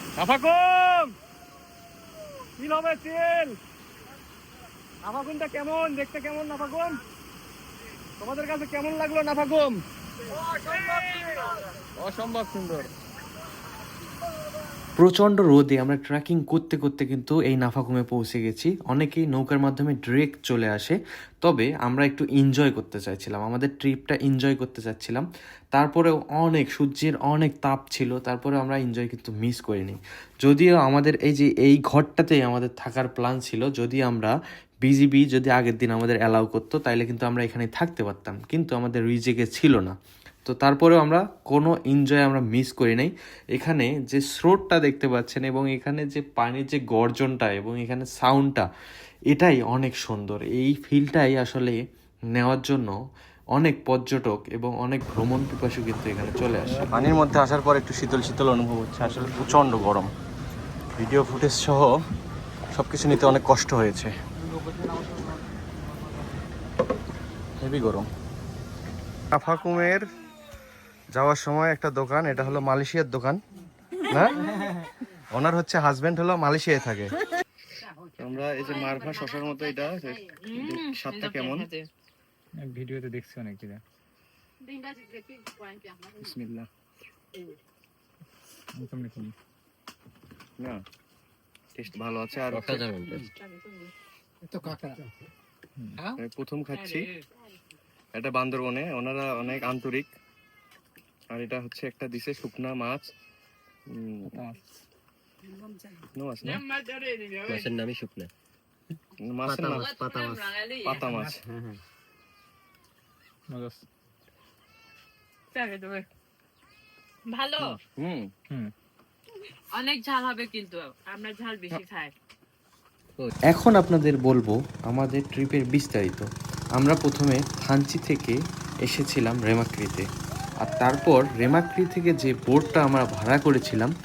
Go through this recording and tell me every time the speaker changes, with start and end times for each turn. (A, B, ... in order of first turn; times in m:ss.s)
0:00.2-0:01.1 A
0:02.6-0:03.6 A
0:05.0-0:07.0 A
0:08.2-0:09.8 A
0:10.6-0:12.9 A
0:15.0-0:34.3 B
0:34.8-0:48.7 B
0:49.3-0:51.8 B
0:52.4-0:53.0 B
0:53.6-0:57.0 B
0:56.9-1:00.1 A
1:01.0-1:02.0 A
1:02.7-1:04.1 A
1:07.6-1:08.1 A
1:09.3-1:10.0 A
1:11.2-1:13.4 A
1:14.1-1:14.5 A
1:15.3-1:17.1 A
1:18.2-1:21.7 A
1:18.9-1:19.2 C
1:20.3-1:21.9 C
1:22.6-1:23.8 D
1:24.6-1:26.2 C
1:26.2-1:26.7 A
1:28.8-1:29.3 D
1:31.8-1:33.3 A
1:32.5-1:33.3 E
1:33.2-1:33.9 C
1:36.0-1:37.1 A
1:36.9-1:37.2 C
1:38.1-1:40.1 A
1:41.3-1:43.1 A
1:43.9-1:44.4 A
1:46.2-1:46.6 A
1:46.5-1:47.7 C
1:47.4-1:48.3 E
1:49.2-1:50.0 A
1:49.5-1:50.5 E
1:49.7-1:51.2 C
1:50.8-1:51.4 A
1:51.5-1:51.8 E
1:53.5-1:53.8 D
1:55.5-1:56.1 C
1:57.3-1:57.8 C
1:58.0-1:58.3 A
1:59.7-2:02.1 C
2:03.5-2:06.3 B
2:06.8-2:10.1 B
2:10.6-2:13.9 B